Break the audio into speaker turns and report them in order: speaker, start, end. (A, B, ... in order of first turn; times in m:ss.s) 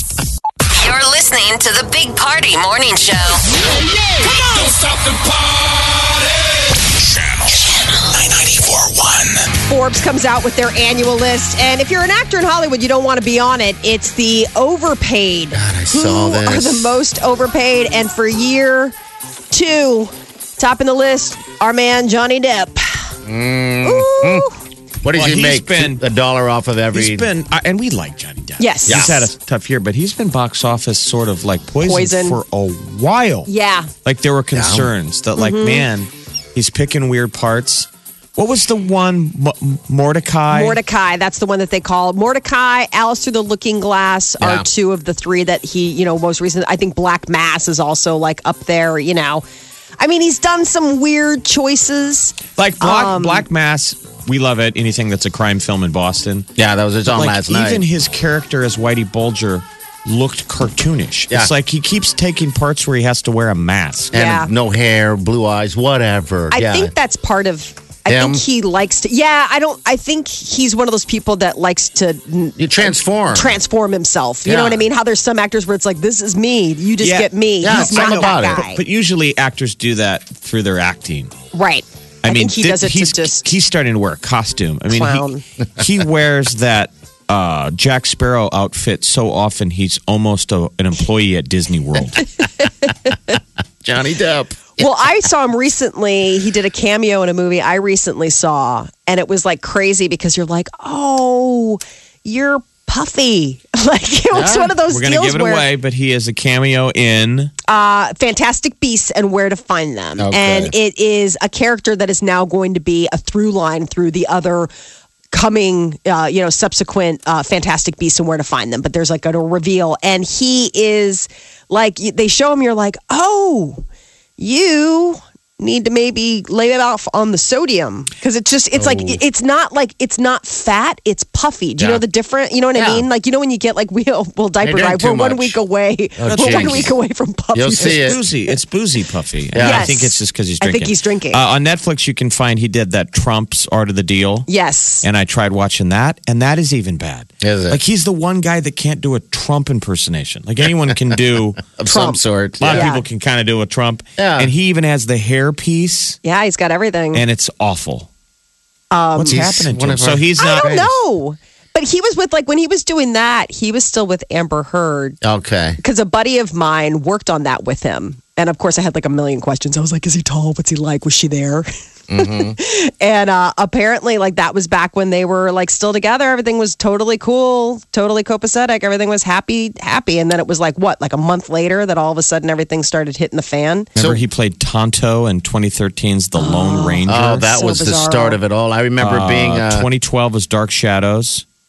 0:00.7-0:03.4 A
0:04.2-0:09.5 B
0:09.7-0:18.9 C
0:15.5-0:16.9 D
0:19.5-0:23.1 C
0:23.2-0:24.5 D
0:23.8-0:24.6 C
0:25.0-0:27.3 D
0:25.1-0:26.0 E
0:26.9-0:33.5 E
0:28.6-0:29.2 C
0:28.9-0:29.2 D
0:31.8-0:32.4 C
0:33.5-0:33.9 C
0:34.0-0:40.8 E
0:34.5-0:34.9 D
0:35.4-0:35.8 C
0:40.5-0:49.4 C
0:44.4-0:44.7 D
0:50.0-0:53.4 C
0:52.6-0:56.5 E
0:56.6-0:57.8 D
0:57.1-1:04.1 E
1:04.1-1:06.9 D
1:04.1-1:04.5 C
1:06.5-1:18.8 C
1:08.1-1:08.4 D
1:12.6-1:13.6 D
1:14.4-1:14.8 D
1:17.0-1:21.3 E
1:17.6-1:18.6 D
1:21.5-1:23.5 C
1:22.2-1:25.2 E
1:24.9-1:25.4 C
1:25.8-1:32.2 E
1:32.8-1:33.3 C
1:33.8-1:34.8 D
1:34.8-1:45.6 C
1:44.3-1:44.8 D
1:44.9-1:47.5 E
1:47.7-1:54.7 C
1:50.2-1:50.7 D
1:55.3-2:03.8 C
2:04.4-2:18.2 C
2:08.7-2:09.2 D
2:11.8-2:12.0 D
2:12.7-2:13.0 D
2:14.6-2:15.6 D
2:16.2-2:16.9 D
2:16.2-2:16.9 E
2:17.5-2:18.2 D
2:17.8-2:24.5 E
2:19.5-2:19.9 D
2:19.6-2:21.4 C
2:24.5-2:25.0 C
2:25.0-2:31.6 E
2:27.4-2:27.8 D
2:31.7-2:32.9 D
2:31.9-2:33.0 C
2:32.6-2:36.2 E
2:34.2-2:34.5 D
2:36.2-2:37.2 C
2:37.1-2:38.1 E
2:38.9-2:39.4 C
2:39.2-2:40.9 E
2:39.3-2:40.8 D
2:40.4-2:45.2 C
2:45.2-2:45.8 D
2:45.8-3:03.9 C
2:52.1-2:52.6 D
3:04.0-3:04.2 D
3:04.0-3:07.5 E
3:06.4-3:08.4 C
3:07.1-3:09.9 D
3:09.0-3:11.4 E